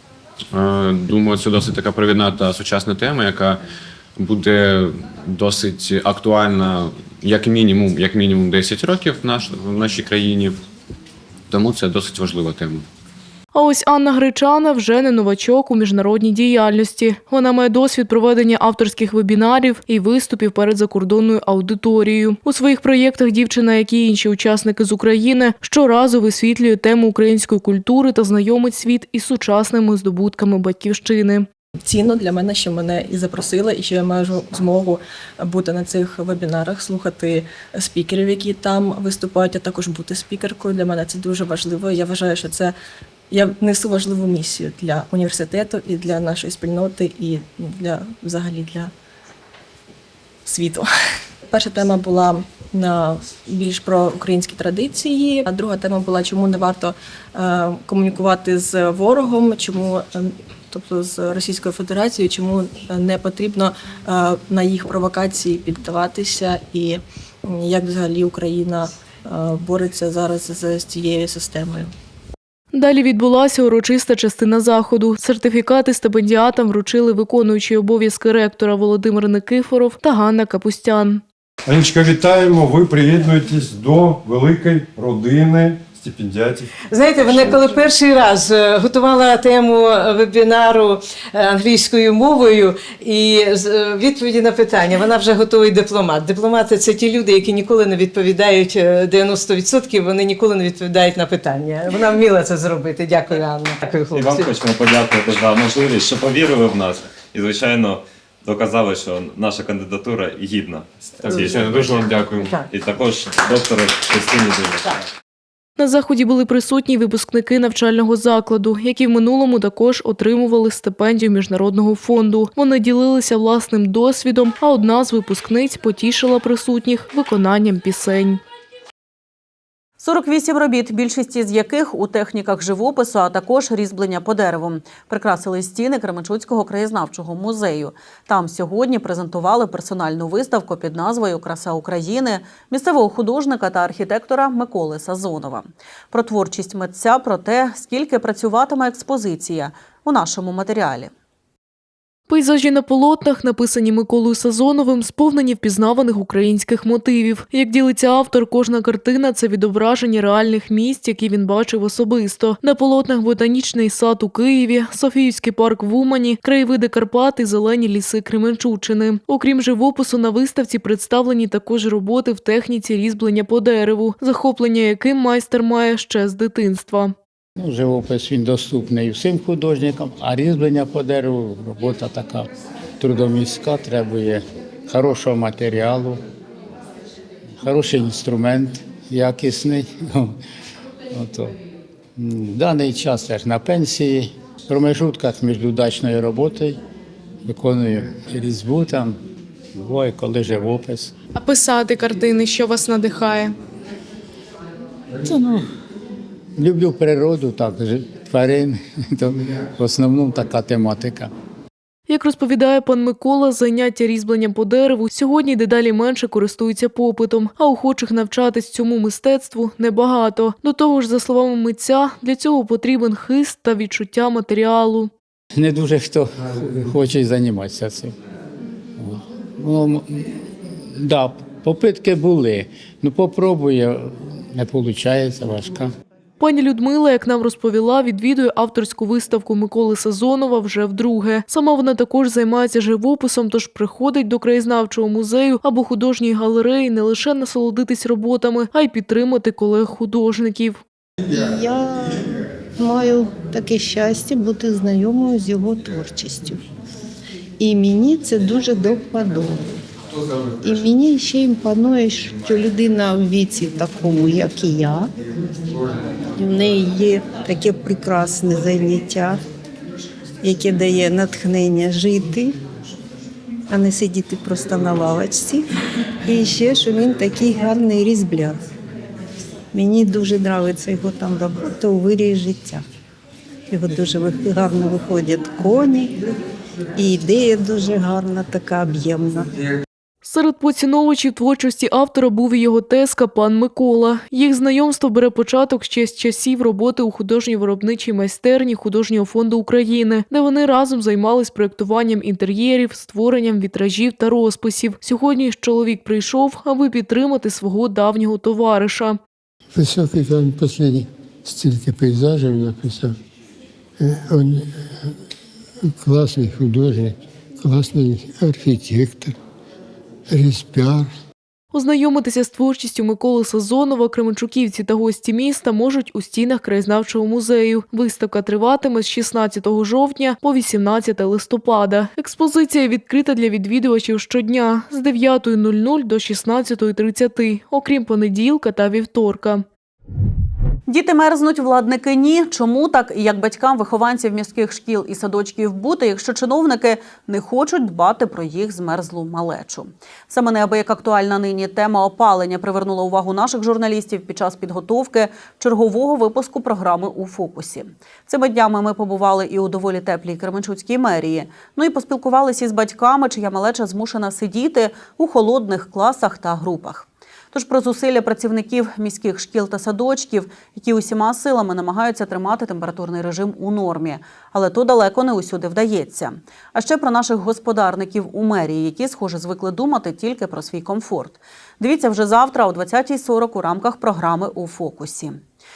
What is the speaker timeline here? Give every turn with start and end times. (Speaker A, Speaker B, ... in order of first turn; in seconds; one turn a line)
Speaker A: 0.5-3.6
Speaker A: 4.2-10.6
Speaker A: 11.5-12.8
Speaker B: 13.5-31.4
Speaker C: 31.8-42.7
Speaker C: 43.3-48.9
Speaker C: 50.4-50.9
Speaker C: 51.5-71.9
Speaker B: 72.7-81.2
Speaker D: 81.7-86.0
Speaker E: 86.8-104.3
Speaker F: 104.1-112.1
Speaker A: 111.3-112.5
Speaker F: 112.7-114.9
Speaker B: 115.8-128.4
Speaker G: 130.0-151.1
Speaker B: 152.3-177.1
Speaker H: 177.6-182.5
Speaker H: 183.0-186.2
Speaker H: 187.6-190.4
Speaker H: 191.1-191.5
Speaker H: 192.2-196.8
Speaker H: 197.4-199.2
Speaker H: 199.7-201.1
Speaker B: 201.3-203.5
Speaker H: 205.2-205.6
Speaker H: 206.6-211.3
Speaker B: 212.1-225.1
Speaker H: 225.5-228.1
Speaker H: 228.9-230.3
Speaker H: 230.9-235.9
Speaker B: 236.4-250.8
Speaker I: 251.3-256.6
Speaker I: 257.6-259.7
Speaker I: 260.6-265.1
Speaker I: 266.3-269.4
Speaker I: 270.4-272.6
Speaker I: 273.7-275.6
Speaker I: 276.2-278.6
Speaker I: 279.7-282.8
Speaker I: 283.7-286.2
Speaker I: 287.0-289.5
Speaker B: 290.2-309.2
Speaker J: 309.7-313.0
Speaker D: 311.6-313.0
Speaker D: 314.1-314.4
Speaker J: 314.2-314.6
Speaker J: 316.0-319.3
Speaker J: 320.3-321.1
Speaker B: 321.7-339.6
Speaker G: 340.9-385.4